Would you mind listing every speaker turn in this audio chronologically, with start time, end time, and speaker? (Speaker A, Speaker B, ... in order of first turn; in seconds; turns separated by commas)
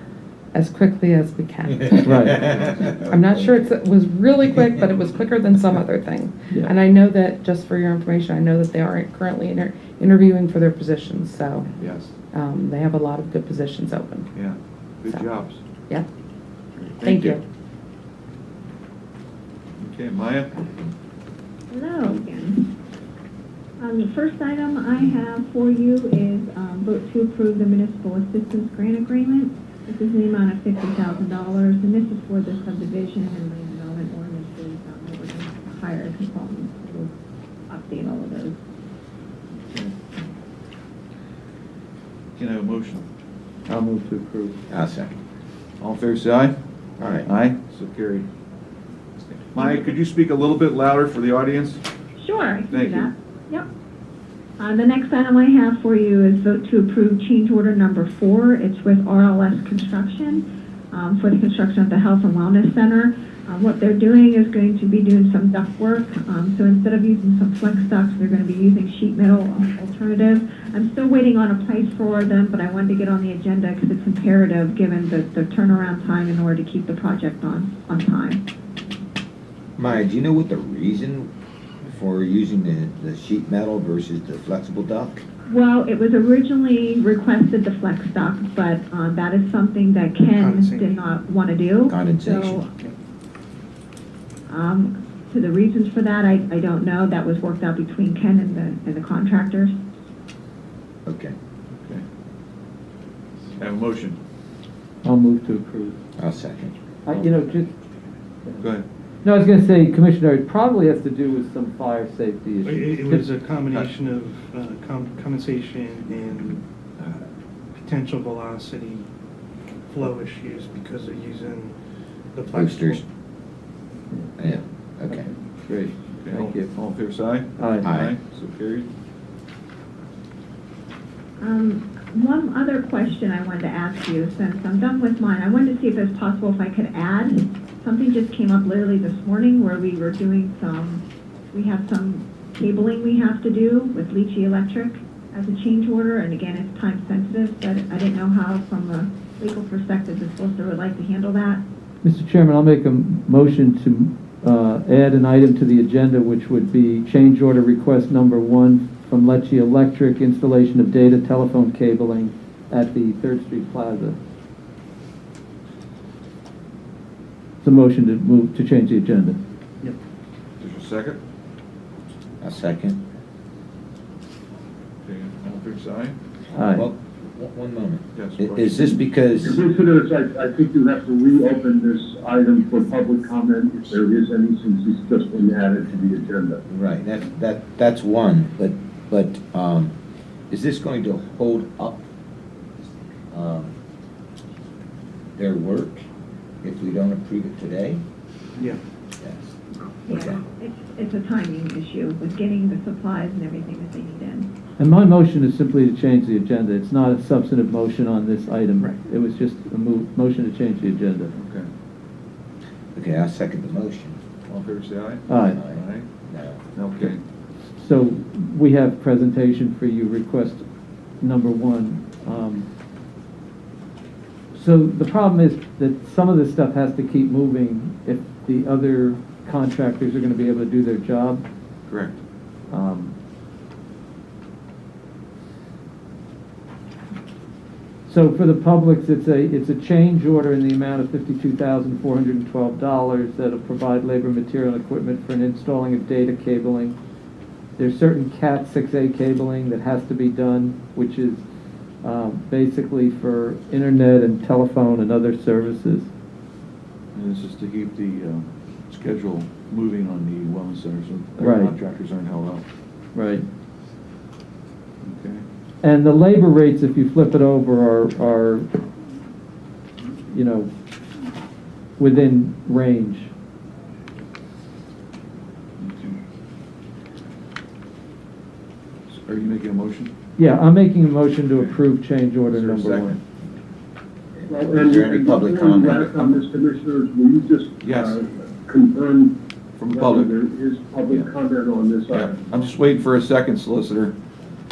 Speaker A: 0.5-11.7, Speaker B: 1.6-3.7, Speaker C: 1.9-2.4, Speaker D: 11.8-12.2, Speaker A: 12.3-14.3, Speaker D: 14.3-15.6, Speaker D: 16.8-17.4, Speaker A: 17.0-17.4, Speaker D: 19.8-20.5, Speaker E: 21.7-22.7, Speaker E: 23.8-37.1, Speaker E: 37.7-38.6, Speaker D: 39.6-39.9, Speaker D: 42.4-43.0, Speaker C: 43.7-44.6, Speaker B: 44.7-45.1, Speaker D: 45.8-46.5, Speaker B: 47.0-47.3, Speaker D: 47.2-48.3, Speaker D: 49.5-51.8, Speaker E: 52.2-53.7, Speaker D: 52.7-53.1, Speaker E: 54.6-78.4, Speaker B: 79.8-81.3, Speaker B: 81.8-85.2, Speaker E: 85.5-92.7, Speaker F: 90.3-91.1, Speaker B: 91.9-92.6, Speaker E: 94.5-99.8, Speaker B: 101.0-101.3, Speaker D: 101.7-102.0, Speaker D: 103.6-104.2, Speaker C: 105.0-106.0, Speaker B: 106.2-106.8, Speaker C: 107.0-107.7, Speaker D: 108.6-108.8, Speaker C: 109.2-113.3, Speaker F: 112.6-117.3, Speaker F: 117.8-119.1, Speaker F: 119.9-121.8, Speaker F: 122.3-123.0, Speaker B: 122.5-123.0, Speaker B: 124.4-125.3, Speaker C: 125.1-126.7, Speaker D: 126.2-128.9, Speaker C: 127.6-127.9, Speaker B: 127.8-128.1, Speaker E: 131.4-151.6, Speaker C: 152.0-164.2, Speaker C: 167.6-169.4, Speaker D: 170.6-171.2, Speaker B: 172.4-173.0, Speaker D: 175.0-176.1, Speaker C: 176.5-176.9, Speaker B: 176.6-179.6, Speaker D: 178.1-178.9, Speaker G: 179.4-186.6, Speaker B: 186.7-189.9, Speaker B: 190.5-192.0, Speaker B: 193.3-193.7, Speaker B: 195.3-196.0, Speaker B: 196.6-198.0, Speaker B: 199.2-199.5, Speaker E: 200.1-204.5, Speaker B: 200.1-200.4, Speaker C: 204.8-211.3, Speaker D: 211.3-211.7, Speaker B: 212.9-214.3, Speaker D: 214.4-216.0, Speaker C: 215.3-215.6, Speaker B: 215.4-216.6, Speaker D: 216.7-217.2, Speaker C: 217.8-220.6, Speaker C: 221.2-222.7, Speaker C: 224.5-231.4, Speaker D: 231.9-232.2, Speaker C: 232.7-233.1, Speaker C: 238.1-246.9, Speaker C: 247.8-251.4, Speaker C: 252.0-256.1, Speaker D: 257.1-262.6, Speaker C: 261.4-261.7, Speaker C: 263.1-263.4, Speaker D: 265.0-265.4, Speaker C: 265.8-268.7, Speaker C: 270.3-270.7, Speaker C: 272.0-273.3, Speaker D: 275.8-276.2, Speaker D: 279.1-280.1, Speaker C: 280.4-283.2, Speaker D: 282.4-283.2, Speaker B: 284.3-286.4, Speaker G: 284.5-292.6, Speaker D: 287.8-288.2, Speaker D: 289.8-290.4, Speaker D: 292.1-294.1